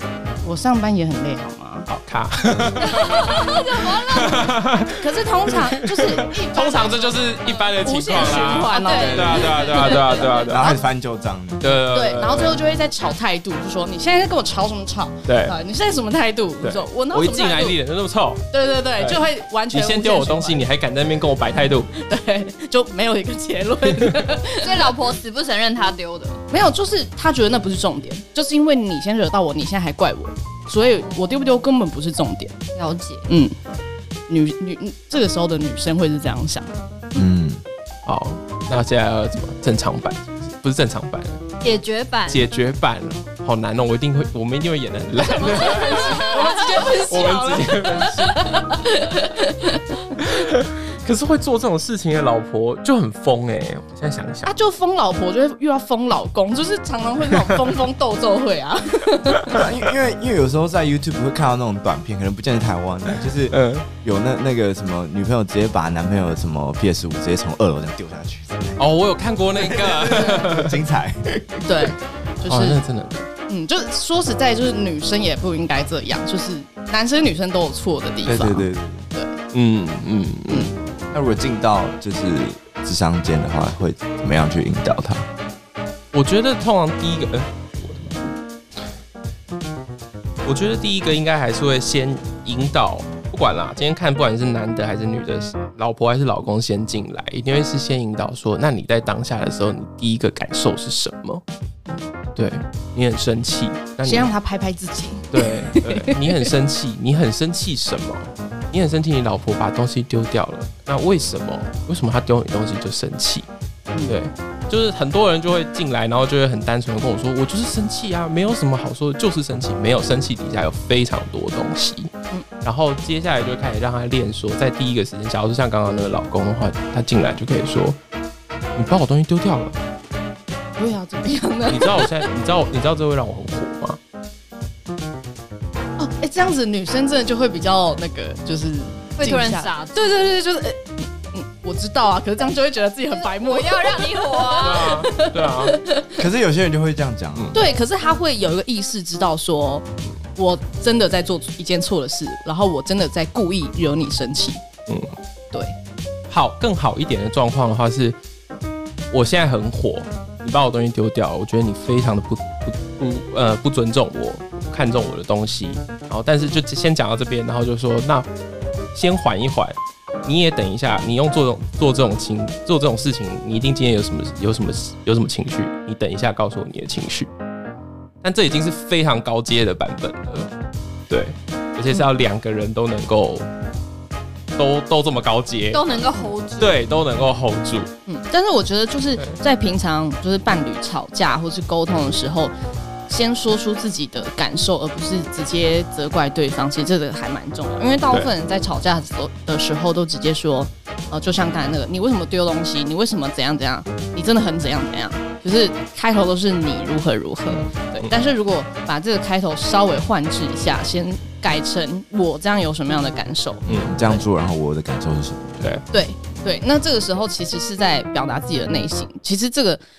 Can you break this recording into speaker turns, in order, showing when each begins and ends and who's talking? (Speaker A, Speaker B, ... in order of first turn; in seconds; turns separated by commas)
Speaker A: 0.4-1.9, Speaker B: 1.9-10.7, Speaker C: 2.8-4.5, Speaker A: 5.0-10.2, Speaker C: 8.1-10.8, Speaker D: 10.5-11.8, Speaker B: 11.6-12.6, Speaker A: 11.9-17.8, Speaker B: 15.3-15.6, Speaker B: 16.6-21.9, Speaker A: 18.5-20.6, Speaker A: 21.9-24.9, Speaker C: 24.6-26.4, Speaker A: 26.5-32.6, Speaker C: 32.8-33.3, Speaker A: 33.3-33.5, Speaker A: 34.3-37.2, Speaker D: 37.1-37.6, Speaker B: 38.1-41.4, Speaker C: 41.6-42.4, Speaker B: 42.3-48.6, Speaker A: 45.2-50.2, Speaker C: 45.6-46.8, Speaker B: 50.2-54.5, Speaker A: 54.5-59.6, Speaker D: 59.5-68.8, Speaker B: 63.5-63.9, Speaker B: 68.8-70.8, Speaker D: 69.5-71.7, Speaker A: 71.7-72.8, Speaker B: 72.5-73.3, Speaker A: 73.5-79.4, Speaker D: 78.2-79.0, Speaker B: 79.5-80.8, Speaker D: 81.1-85.3, Speaker B: 86.1-88.4, Speaker B: 90.5-101.4, Speaker B: 102.4-104.3, Speaker A: 104.0-106.5, Speaker B: 105.3-113.5, Speaker A: 113.9-114.2, Speaker B: 114.1-122.1, Speaker B: 122.6-128.0, Speaker B: 128.8-129.8, Speaker A: 130.8-132.2, Speaker B: 131.7-134.0, Speaker A: 136.0-146.2, Speaker C: 139.2-140.1, Speaker C: 143.1-144.9, Speaker B: 144.6-145.8, Speaker D: 146.2-147.6, Speaker A: 147.5-154.6, Speaker B: 154.9-155.2, Speaker B: 156.3-158.2, Speaker B: 159.1-168.3, Speaker B: 168.9-177.3, Speaker B: 178.2-180.5, Speaker B: 181.1-183.5, Speaker B: 184.6-185.8, Speaker C: 185.7-186.8, Speaker B: 186.6-187.9, Speaker A: 188.1-192.5, Speaker A: 193.1-214.2, Speaker B: 207.5-208.1, Speaker B: 213.7-214.0, Speaker D: 213.7-215.7, Speaker A: 215.9-219.8